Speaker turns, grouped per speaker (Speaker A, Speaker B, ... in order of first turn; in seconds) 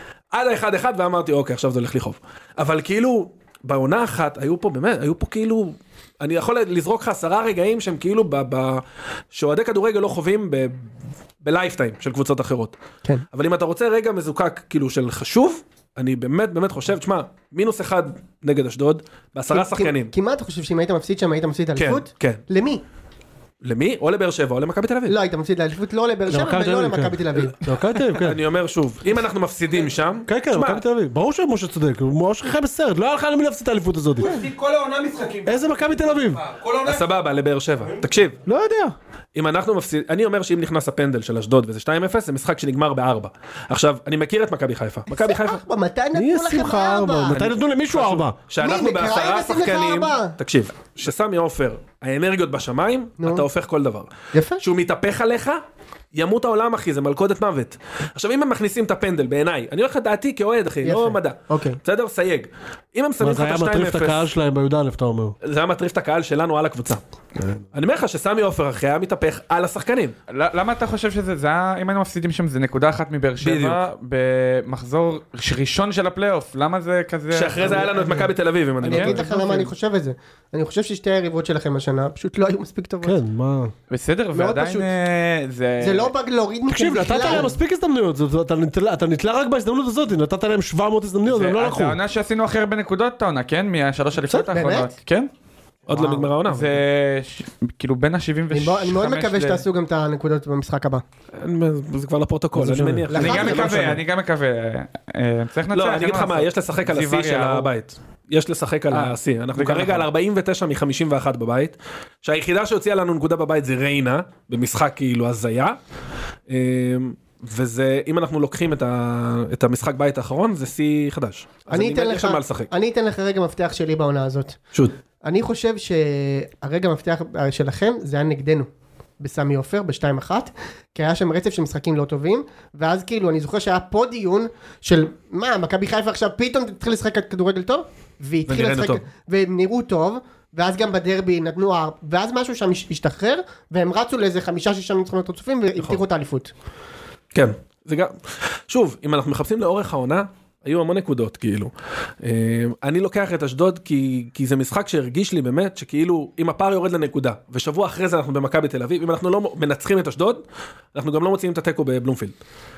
Speaker A: 0.3-12.8, 13.3-20.1, 21.8-22.4, 23.6-25.2, 28.1-30.8, 36.9-38.4, 39.4-45.6, 47.9-55.6, 56.1-64.3, 65.4-67.0, 67.7-70.2, 73.4-73.8, 77.3-79.7, 95.9-96.8, 101.4-104.0, 105.7-115.8, 116.5-122.7, 138.5-139.0, 147.3-148.2, 148.7-151.7, 152.2-162.3
Speaker B: 19.5-22.8, 25.1-27.8, 45.1-47.4, 48.6-50.4, 53.2-53.5, 54.3-54.6, 60.8-61.8, 77.6-78.3, 78.8-83.2, 84.3-84.9, 85.8-87.5, 94.3-94.9, 95.9-96.2, 98.5-101.0, 103.1-104.0, 121.7-124.6, 125.2-128.7, 129.2-146.5
Speaker C: 26.3-28.4, 30.3-34.4, 35.5-36.4, 38.5-39.0, 46.1-48.4, 63.2-65.4, 83.0-83.7, 86.7-92.0, 102.5-103.3
Speaker D: 34.2-37.1
Speaker E: 70.3-77.9, 78.9-79.2, 83.9-86.1, 91.3-95.3, 96.5-99.7, 103.1-107.7, 108.9-110.1